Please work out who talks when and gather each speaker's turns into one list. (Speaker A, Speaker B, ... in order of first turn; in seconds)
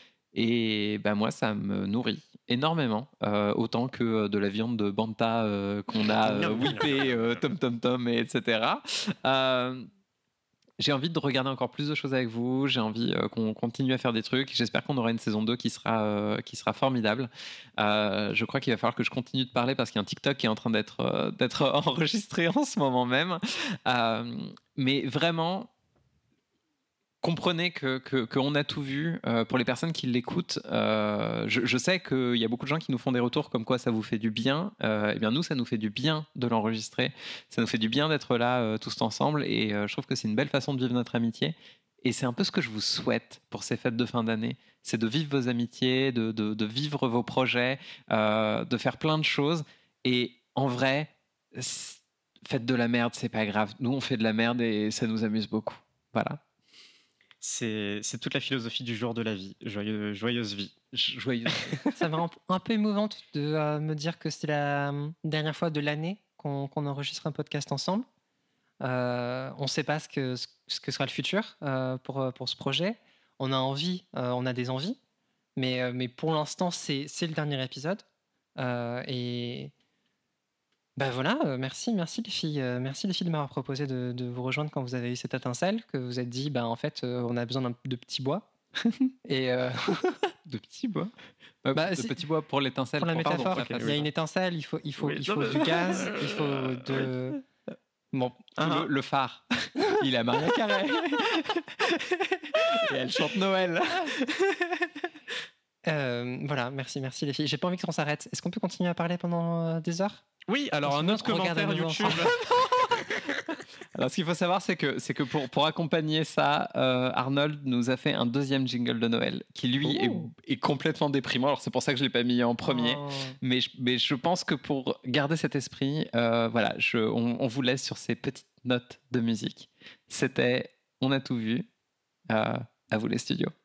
Speaker A: 0.3-9.9, 10.8-25.7, 27.2-56.4, 60.9-61.8, 90.5-91.1, 91.6-94.0, 98.6-104.9, 112.5-113.1, 113.9-131.7, 132.3-133.5
Speaker B: 6.0-7.4, 57.4-60.7, 93.5-94.0, 95.0-97.1, 98.6-98.9, 110.5-112.4, 119.8-120.2
Speaker C: 62.0-68.1, 68.8-75.0, 75.6-78.0, 78.6-79.7, 81.0-88.5, 89.2-90.2, 91.7-92.2, 93.0-97.4, 98.1-98.5, 105.9-110.2, 110.8-112.3, 122.7-123.4